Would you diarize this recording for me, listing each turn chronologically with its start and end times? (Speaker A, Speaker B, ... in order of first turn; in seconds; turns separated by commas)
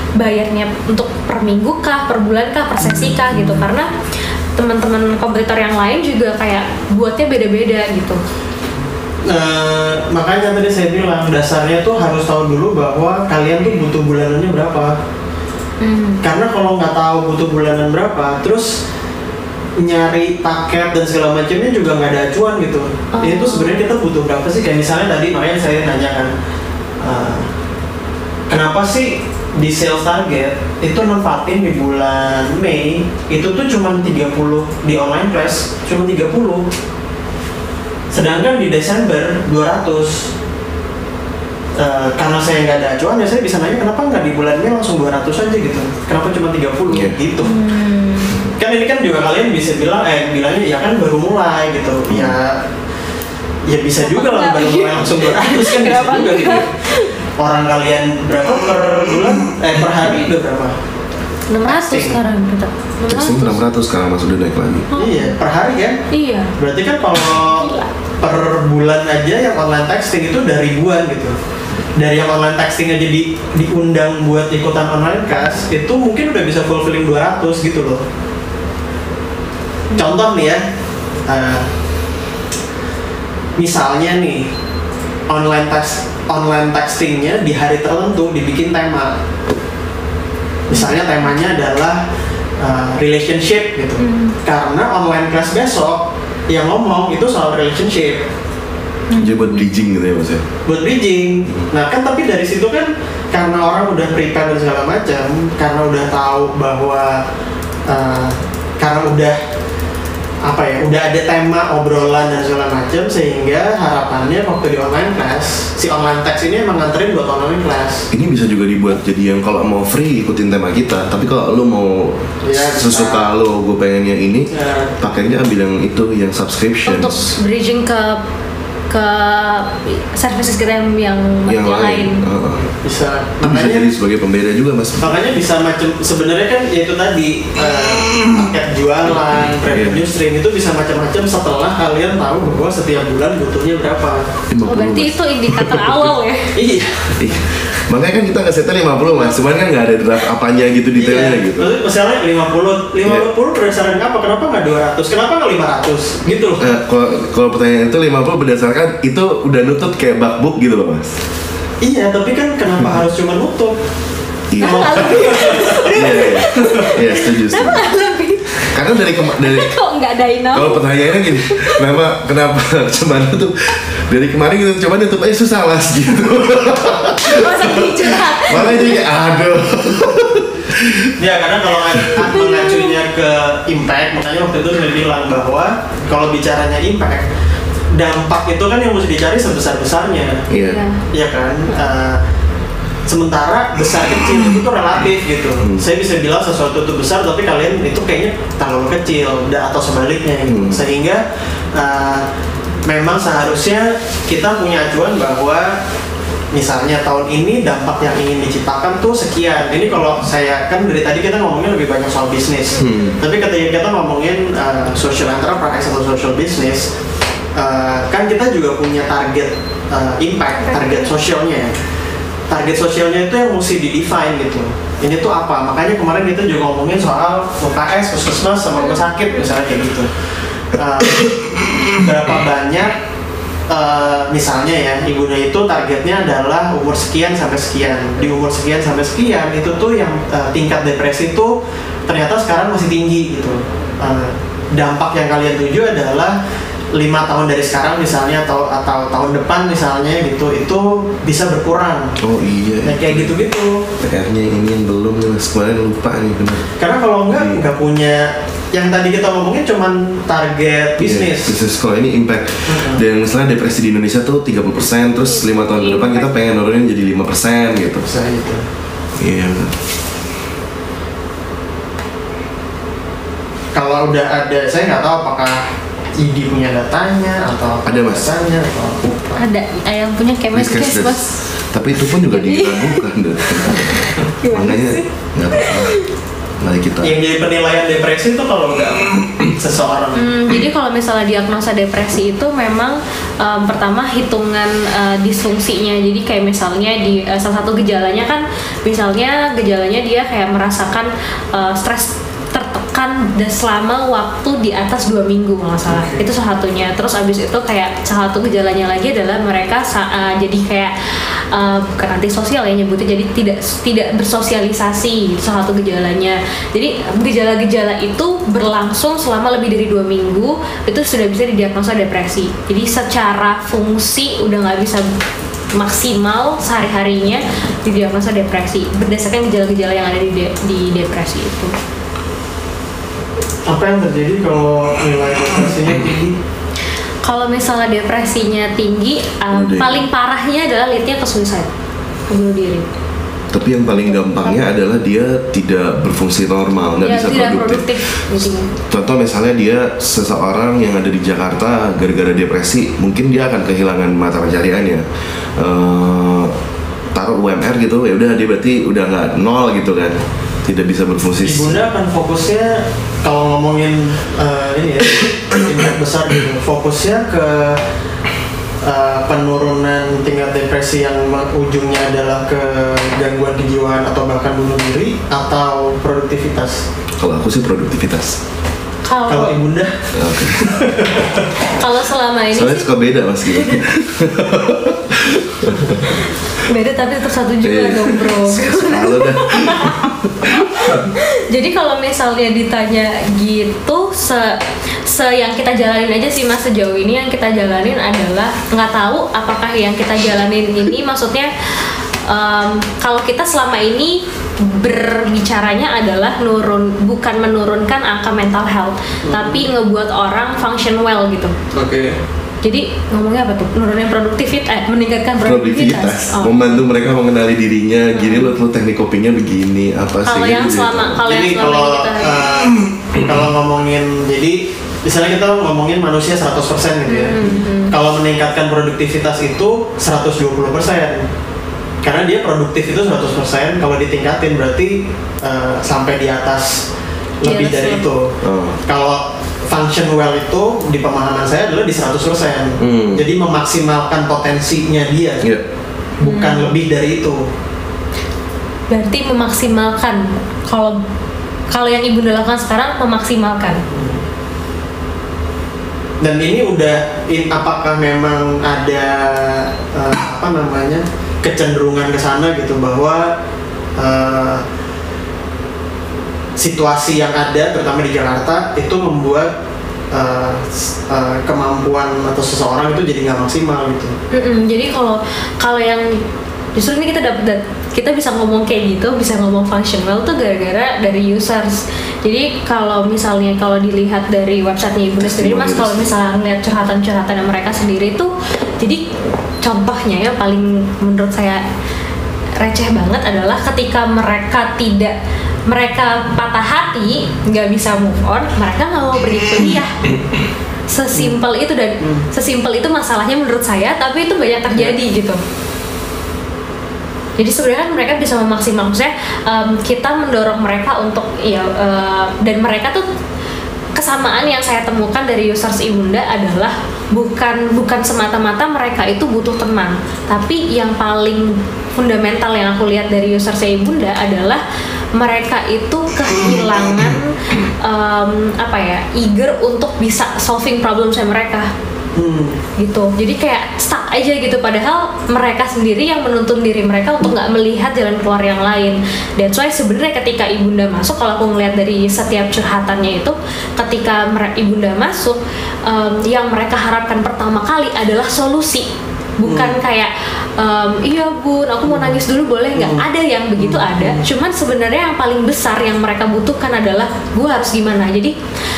Speaker A: 0.2-3.9, Speaker B: 2.9-3.7, Speaker A: 4.6-8.2, Speaker B: 9.3-14.9, Speaker A: 15.8-16.2, Speaker B: 16.2-18.8, Speaker B: 19.8-26.3, Speaker A: 23.1-23.9, Speaker B: 27.0-27.5, Speaker B: 28.5-36.7, Speaker B: 38.1-40.3, Speaker B: 41.8-47.6, Speaker C: 46.9-47.2, Speaker A: 47.4-48.3, Speaker B: 48.6-52.6, Speaker C: 52.1-52.4, Speaker B: 53.6-56.7, Speaker A: 54.0-57.1, Speaker B: 57.4-60.8, Speaker A: 61.5-63.6, Speaker B: 61.6-62.2, Speaker C: 63.1-64.9, Speaker A: 64.9-65.3, Speaker B: 64.9-66.0, Speaker A: 66.1-66.5, Speaker B: 66.6-71.3, Speaker A: 67.5-67.9, Speaker B: 72.0-78.0, Speaker B: 79.9-80.6, Speaker B: 81.3-81.7, Speaker B: 83.6-84.5, Speaker B: 85.3-89.2, Speaker B: 90.7-92.0, Speaker A: 90.7-91.0, Speaker B: 92.6-98.2, Speaker A: 94.0-94.3, Speaker A: 99.1-99.6, Speaker C: 99.2-100.4, Speaker B: 100.7-107.2, Speaker B: 107.9-109.4, Speaker B: 110.4-118.1, Speaker C: 118.1-127.3, Speaker B: 122.4-123.3, Speaker B: 124.5-124.9, Speaker A: 126.8-128.2, Speaker A: 128.9-132.2, Speaker C: 131.5-132.6, Speaker B: 132.6-133.9, Speaker C: 133.4-135.0, Speaker B: 135.0-144.3, Speaker C: 139.6-140.0, Speaker C: 144.5-146.1, Speaker A: 144.7-146.5, Speaker B: 146.5-147.2, Speaker C: 147.1-151.7, Speaker B: 150.9-156.7, Speaker C: 156.6-161.2, Speaker B: 161.8-163.8, Speaker C: 164.5-167.9, Speaker B: 164.6-165.9, Speaker A: 164.6-171.8, Speaker C: 168.7-169.7, Speaker C: 170.5-181.1, Speaker A: 177.2-179.0, Speaker B: 181.2-187.3, Speaker A: 182.2-183.0, Speaker B: 187.9-190.5, Speaker C: 190.5-190.8, Speaker A: 190.5-191.0, Speaker B: 191.1-192.2, Speaker B: 193.1-201.2, Speaker C: 195.6-195.9, Speaker C: 200.5-200.8, Speaker B: 201.7-202.2, Speaker B: 202.9-205.8, Speaker B: 206.5-216.9, Speaker C: 212.8-213.2, Speaker B: 217.6-221.7, Speaker A: 220.5-221.1, Speaker B: 222.5-230.1, Speaker A: 228.8-229.5, Speaker B: 230.7-231.3, Speaker B: 231.8-233.0, Speaker B: 233.7-241.5, Speaker B: 242.1-246.4, Speaker B: 246.9-252.2, Speaker C: 252.2-253.4, Speaker B: 252.8-253.9, Speaker C: 254.0-256.7, Speaker B: 256.8-261.6, Speaker C: 257.3-257.7, Speaker C: 261.0-268.1, Speaker B: 262.7-263.0, Speaker A: 265.2-266.6, Speaker B: 268.1-268.6, Speaker C: 269.2-269.7, Speaker B: 273.7-275.6, Speaker B: 276.2-279.4, Speaker C: 277.8-278.2, Speaker A: 279.4-281.4, Speaker C: 280.5-286.0, Speaker A: 282.2-283.0, Speaker A: 283.6-286.0, Speaker C: 286.6-287.1, Speaker B: 287.0-290.2, Speaker A: 290.1-310.9, Speaker B: 305.9-306.2, Speaker A: 311.5-325.1, Speaker A: 325.7-331.7, Speaker B: 333.6-336.4, Speaker A: 337.2-341.7, Speaker C: 339.5-340.0, Speaker A: 342.3-342.9, Speaker C: 343.5-355.0, Speaker A: 344.1-344.6, Speaker A: 347.0-348.7, Speaker C: 355.6-356.5, Speaker C: 357.1-361.8, Speaker B: 361.4-367.8, Speaker B: 368.8-376.9, Speaker C: 377.2-378.4, Speaker A: 379.1-379.6, Speaker B: 379.3-381.4, Speaker C: 380.1-380.7, Speaker A: 381.7-382.9, Speaker C: 382.5-386.1, Speaker A: 383.5-383.8, Speaker A: 386.1-411.5, Speaker C: 387.6-391.1, Speaker B: 409.3-409.6, Speaker B: 411.7-412.2, Speaker A: 412.6-416.8, Speaker C: 415.4-421.2, Speaker A: 418.1-418.5, Speaker A: 420.2-422.7, Speaker B: 421.2-427.4, Speaker A: 427.1-427.9, Speaker B: 427.9-431.2, Speaker B: 432.0-436.8, Speaker B: 437.4-438.3, Speaker A: 437.4-438.0, Speaker C: 438.4-438.8, Speaker B: 438.9-445.4, Speaker C: 442.8-443.2, Speaker B: 446.2-447.5, Speaker A: 446.2-446.7, Speaker A: 448.9-451.0, Speaker A: 451.7-453.8, Speaker B: 453.9-454.2, Speaker B: 456.2-463.3, Speaker B: 464.0-464.6, Speaker B: 466.6-469.5, Speaker B: 470.1-474.1, Speaker A: 474.3-476.2, Speaker A: 476.7-489.0, Speaker C: 485.2-486.1, Speaker A: 489.6-491.6, Speaker A: 492.6-495.1, Speaker A: 495.7-499.9, Speaker A: 500.9-505.4, Speaker B: 501.1-501.4, Speaker B: 502.0-502.3, Speaker B: 504.7-505.0, Speaker A: 507.4-513.0, Speaker A: 514.0-524.6, Speaker A: 525.1-527.3, Speaker A: 527.8-531.7, Speaker B: 532.1-532.6, Speaker A: 532.8-558.3, Speaker B: 549.5-549.8, Speaker B: 551.9-552.1, Speaker B: 552.7-553.0, Speaker B: 553.6-554.2